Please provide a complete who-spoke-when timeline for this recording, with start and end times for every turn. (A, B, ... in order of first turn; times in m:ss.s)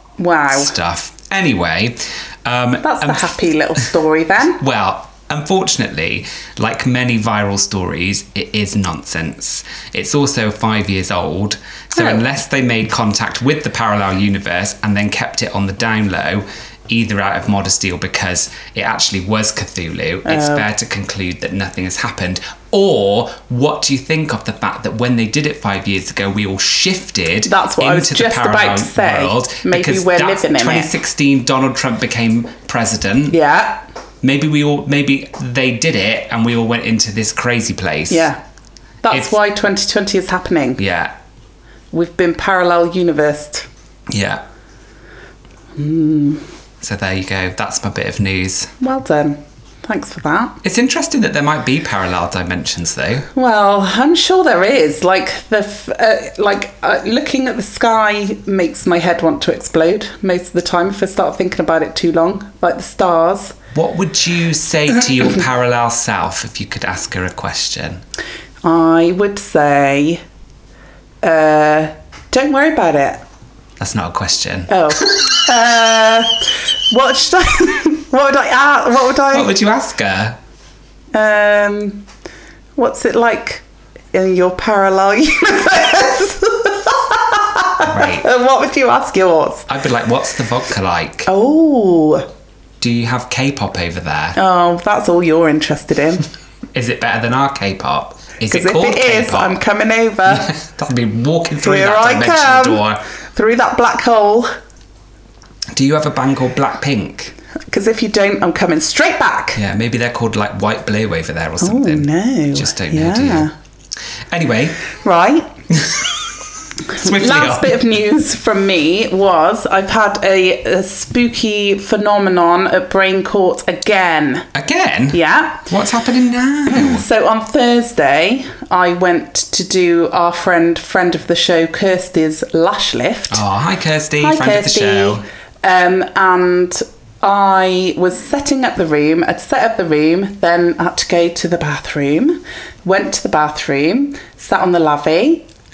0:00.2-0:00.7 A
0:00.5-0:03.3 B
0:02.8-0:04.6 A
0:04.6-0:33.4 B
0:12.0-0:12.2 A
0:20.2-0:20.6 A
0:27.5-0:30.9 A
0:33.3-0:33.8 A
0:34.2-0:38.3 B
0:38.1-0:38.4 A
0:39.0-0:40.8 A
0:40.8-0:41.1 B
0:41.9-0:43.7 A
0:44.1-0:44.4 B
0:45.8-0:46.4 A
0:46.8-0:48.7 B
0:48.8-0:50.6 A
0:50.6-0:53.3 B
0:53.3-1:03.6 A
1:03.7-1:08.0 B
1:08.6-1:10.2 A
1:11.2-1:13.2 A
1:13.8-1:14.8 B
1:14.7-1:19.5 A
1:19.3-1:20.4 B
1:21.1-1:22.0 A
1:22.8-1:23.6 A
1:24.1-1:29.7 A
1:27.8-1:28.3 B
1:29.7-1:31.3 B
1:31.3-1:32.3 A
1:32.8-1:34.4 B
1:34.4-1:36.2 A
1:36.7-1:39.6 B
1:38.5-1:40.5 A
1:40.3-1:43.0 B
1:41.6-1:42.8 A
1:43.3-1:44.5 A
1:45.7-1:47.3 B
1:47.7-1:49.6 A
1:49.6-1:53.5 B
1:51.6-1:53.5 A
1:54.3-1:54.8 B
1:55.0-1:55.5 A
1:55.8-1:56.1 B
1:56.9-1:57.8 B
1:56.9-2:04.5 A
2:04.6-2:07.0 B
2:05.1-2:05.7 A
2:06.7-2:13.4 A
2:13.3-2:15.2 B
2:14.2-2:25.5 A